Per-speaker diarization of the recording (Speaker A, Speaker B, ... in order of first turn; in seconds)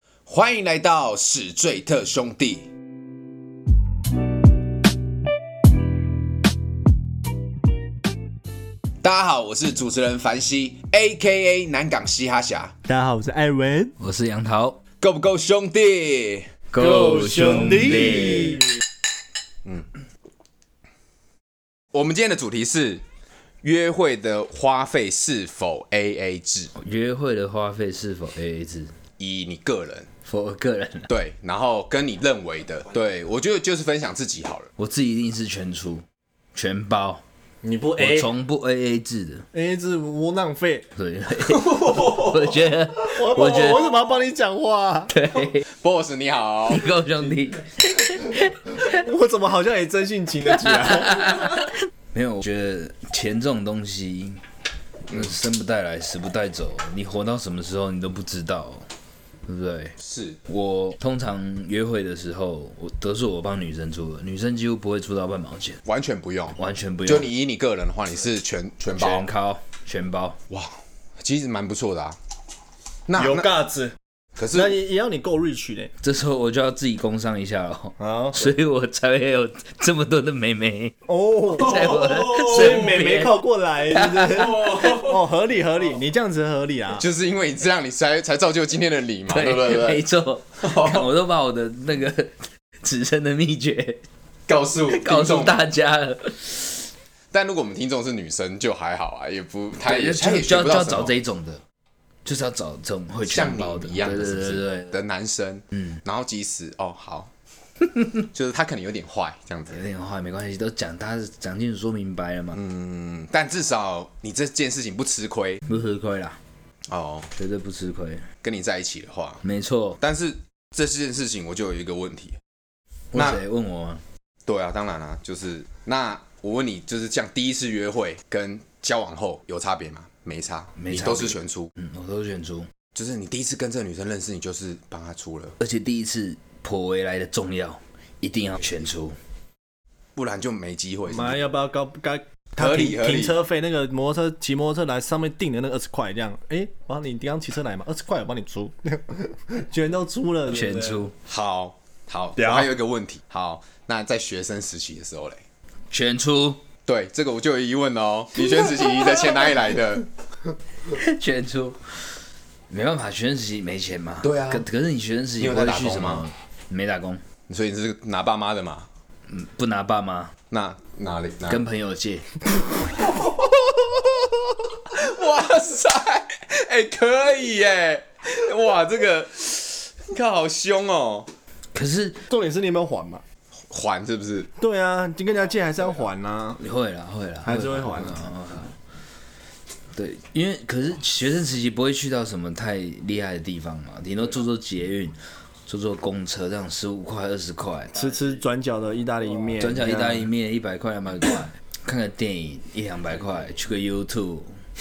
Speaker A: 0.3-2.7, 9.0-12.8, 15.0-16.6, 21.9-23.0, 23.6-26.7, 29.2-30.1, 31.1-34.7, 41.5-42.3, 45.7-47.0, 60.0-60.4, 65.8-69.3, 70.5-72.2, 73.1-73.5, 74.4-74.8, 84.5-85.1, 87.0-90.0, 90.6-91.1, 94.5-95.6, 97.3-101.2, 103.3-107.3, 108.2-109.8, 112.5-115.6, 116.9-117.3, 118.4-119.4, 120.0-122.4, 123.1-123.4, 124.5-131.7, 132.9-135.6, 140.2-141.4, 142.6-143.4, 151.2-155.4, 156.9-160.1, 164.2-164.7, 165.4-166.2, 167.5-168.9, 170.5-171.6, 174.8-181.3, 183.7-184.5
Speaker B: 12.9-14.0, 16.8-18.7, 37.6-38.3, 39.5-40.9, 43.0-45.3, 48.8-51.5, 73.2-74.0, 74.5-75.9, 78.0-78.5, 81.1-87.0, 141.1-151.0, 152.4-152.7, 182.3-183.2, 184.6-186.6, 187.4-188.3, 198.0-200.3
Speaker C: 14.0-14.8, 16.7-18.6, 26.8-28.9, 30.2-31.1, 34.8-37.2, 38.0-39.5, 41.0-44.0, 45.1-45.7, 46.7-48.9, 50.7-54.4, 55.1-58.9, 59.5-60.0, 60.5-65.8, 66.6-67.3, 68.9-70.4, 76.0-81.0, 81.5-83.4, 83.9-85.0, 89.3-94.0, 94.9-96.9, 99.8-101.6, 102.2-105.0, 109.7-112.6, 115.7-116.4, 117.3-118.3, 119.4-120.0, 123.1-124.0, 130.8-132.7, 135.6-139.2, 150.5-151.1, 155.9-156.6, 158.8-159.4, 160.9-162.1, 162.7-167.2, 169.3-170.3, 171.5-172.4, 181.7-182.2, 186.6-188.8, 189.9-198.2, 199.6-204.5